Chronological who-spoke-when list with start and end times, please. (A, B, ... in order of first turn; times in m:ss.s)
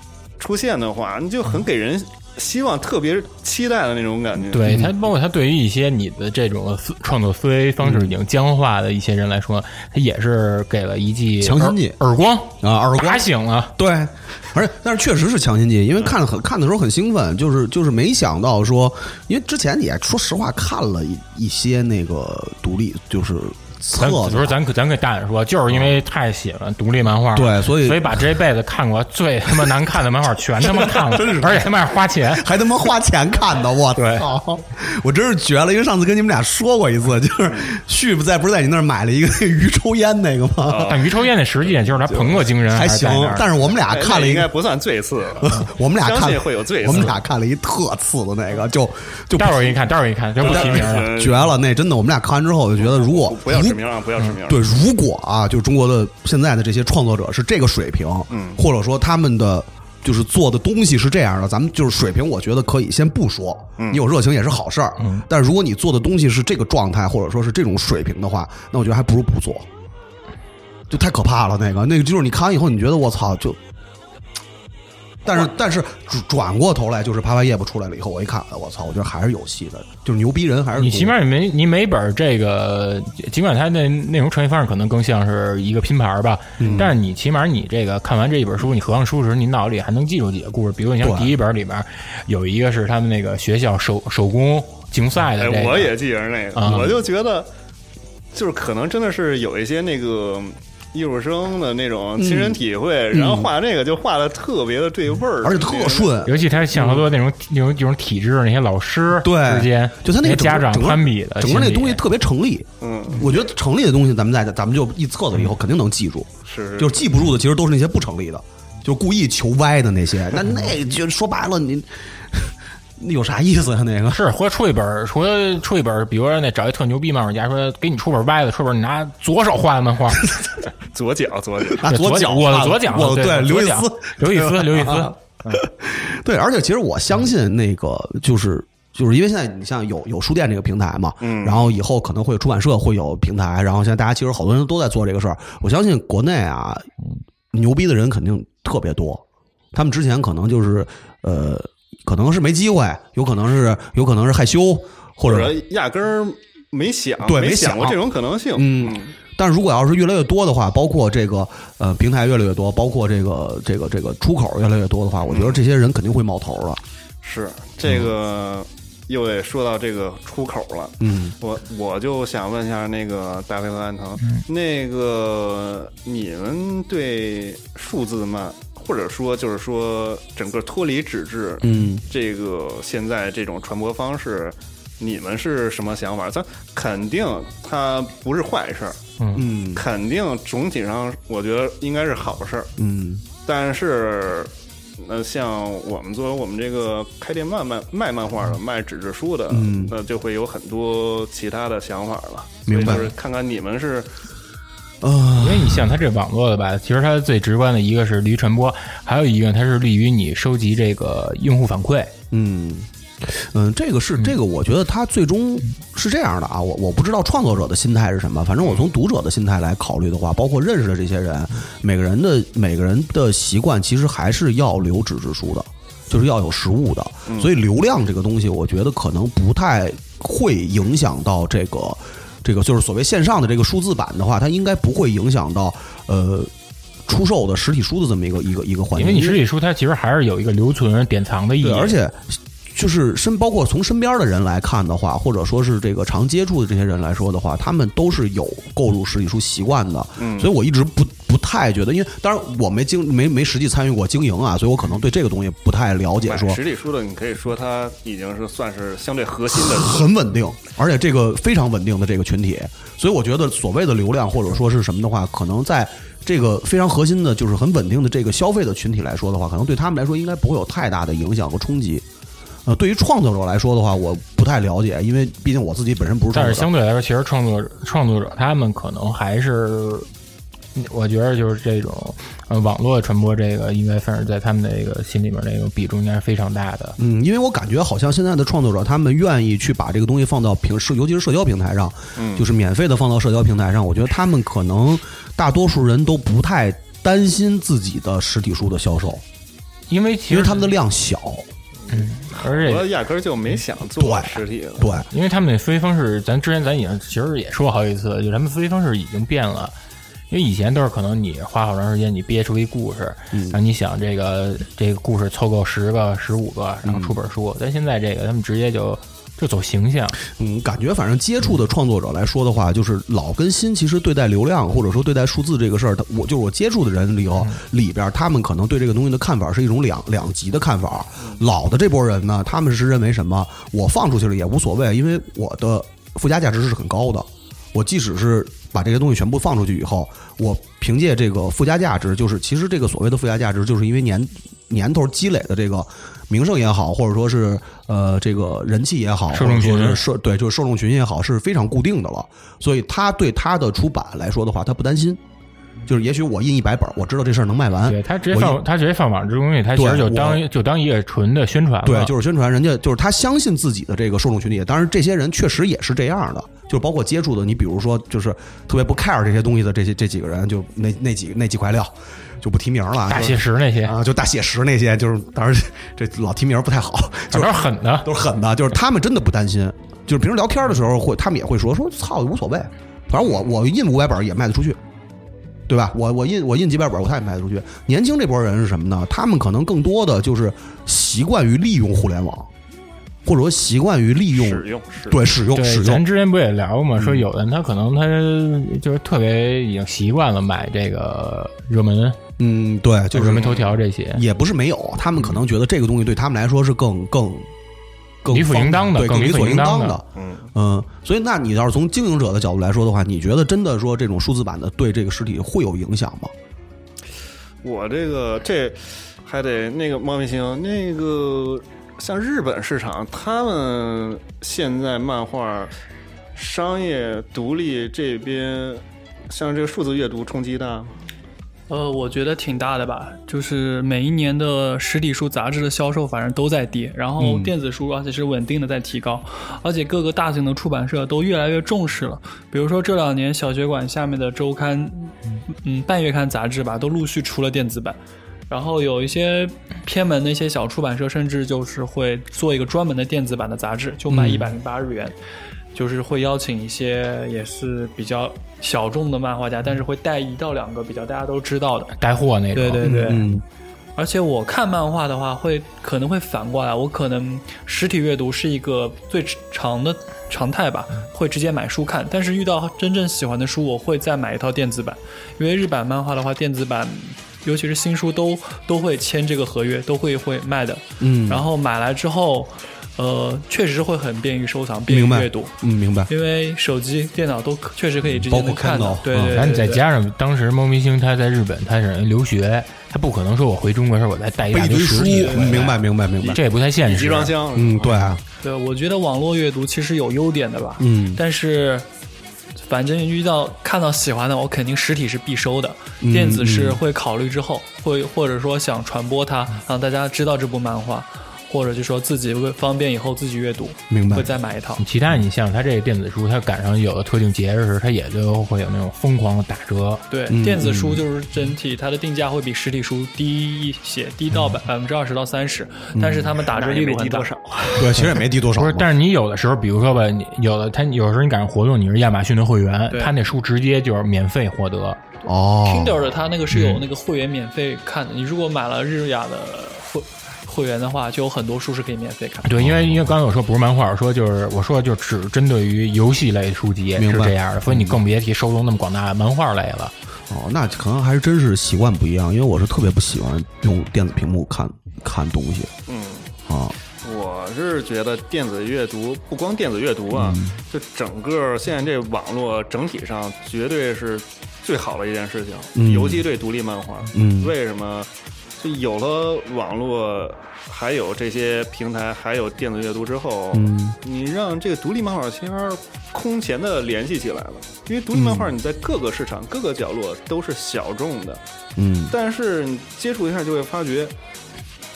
0:00.4-0:04.8 A
0:04.5-0:13.8 B
0:04.6-0:04.9 C
0:07.8-0:08.1 C
0:11.4-0:12.0 C
0:12.6-0:24.6 C
0:24.0-0:32.5 B
0:27.3-0:28.3 C
0:30.6-0:41.0 C
0:34.0-0:34.3 B
0:40.6-0:41.1 A
0:40.9-0:43.5 B
0:42.1-0:44.5 C
0:43.9-0:47.2 A
0:45.4-0:49.8 C
0:49.4-0:51.1 B
0:50.4-0:51.5 A
0:50.4-0:53.8 C
0:52.8-0:54.7 A
0:54.4-1:09.7 C
0:58.3-0:58.6 A
1:03.8-1:04.0 A
1:05.0-1:05.3 B
1:10.9-1:13.6 C
1:15.2-1:21.2 C
1:20.8-1:35.9 B
1:26.6-1:26.9 C
1:31.0-1:31.3 C
1:35.4-1:37.5 A
1:36.6-1:37.0 B
1:38.3-1:46.2 A
1:42.2-1:42.6 C
1:43.1-1:43.5 C
1:45.4-1:47.0 C
1:46.2-1:52.0 B
1:49.2-2:04.2 C
1:52.8-1:53.5 A
1:56.4-1:57.0 A
2:04.1-2:10.4 B
2:10.9-2:11.8 A
2:11.7-2:26.9 C
2:11.8-2:15.6 B
2:21.2-2:21.7 A
2:27.5-2:35.6 C
2:35.2-2:39.1 A
2:37.2-2:38.0 C
2:38.6-2:46.8 C
2:45.3-2:45.6 A
2:47.2-3:09.0 A
2:51.0-2:51.4 C
3:01.6-3:02.0 C
3:09.2-3:09.4 B
3:09.4-3:09.8 C
3:09.7-3:12.7 A
3:12.8-3:13.2 C
3:13.4-3:24.1 A
3:19.5-3:19.9 C
3:22.7-3:23.1 C
3:25.0-3:26.0 C
3:25.4-3:32.1 B
3:32.3-3:56.5 C
3:38.6-3:38.9 A
3:47.3-3:47.5 A
3:57.1-3:59.4 C
3:59.0-4:02.0 B
4:01.6-4:16.6 C
4:10.2-4:10.5 A
4:16.2-4:20.1 A
4:19.5-4:32.0 C
4:32.7-4:36.7 C
4:36.3-4:40.1 B
4:40.8-4:47.0 B
4:47.0-4:59.2 C
4:52.2-4:52.5 A
4:59.9-5:00.8 B
5:00.3-5:01.5 C
5:01.9-5:02.9 B
5:02.3-5:05.0 A
5:04.0-5:05.1 C
5:05.1-5:09.7 B
5:10.3-5:20.2 B
5:13.3-5:13.6 C
5:16.8-5:17.2 C
5:20.2-5:55.2 C
5:49.3-5:50.0 B
5:55.9-5:58.6 C
5:57.8-6:02.1 B
5:59.8-6:00.4 C
6:01.8-6:24.8 C
6:13.1-6:14.0 B
6:17.3-6:18.1 B
6:25.7-6:32.5 C
6:33.2-6:36.0 C
6:34.3-6:35.2 A
6:35.5-6:42.2 B
6:37.0-6:37.2 C
6:42.4-6:43.6 C
6:43.1-6:44.2 B
6:43.4-6:43.7 A
6:44.1-6:47.5 C
6:48.2-6:56.3 C
6:48.3-6:50.0 B
6:50.2-6:50.5 A
6:57.6-7:05.7 A
7:06.4-7:11.0 A
7:11.7-7:28.0 D
7:17.2-7:17.5 C
7:28.5-7:35.2 D
7:34.1-7:34.5 C
7:35.7-7:41.9 D
7:42.0-7:42.9 B
7:42.6-7:43.3 D
7:42.8-7:43.4 C
7:44.0-8:05.5 D
8:01.0-8:01.5 C
8:04.9-8:06.1 C
8:06.1-8:09.8 D
8:08.1-8:09.5 C
8:09.3-8:17.3 B
8:14.5-8:16.4 C
8:15.1-8:15.6 D
8:16.2-8:18.0 A
8:17.5-8:18.2 C
8:18.4-8:21.9 D
8:20.8-8:21.2 C
8:22.6-8:34.8 D
8:26.0-8:26.8 C
8:33.9-8:34.3 C
8:34.8-8:40.0 B
8:40.1-8:47.3 D
8:40.3-8:41.0 C
8:45.9-8:46.4 C
8:46.4-8:48.1 A
8:47.8-8:48.9 C
8:48.5-8:55.0 B
8:55.2-8:56.1 C
8:55.6-9:02.5 D
8:56.5-8:56.8 B
9:02.4-9:09.9 B
9:02.6-9:03.1 C
9:07.0-9:08.0 C
9:10.3-9:15.7 C
9:15.9-9:16.3 A
9:16.5-9:16.8 C
9:17.0-9:41.4 A
9:20.1-9:20.6 C
9:25.8-9:26.2 C
9:27.1-9:27.5 C
9:33.5-9:34.0 C
9:38.1-9:38.5 C
9:41.8-9:42.2 C
9:42.1-9:44.1 A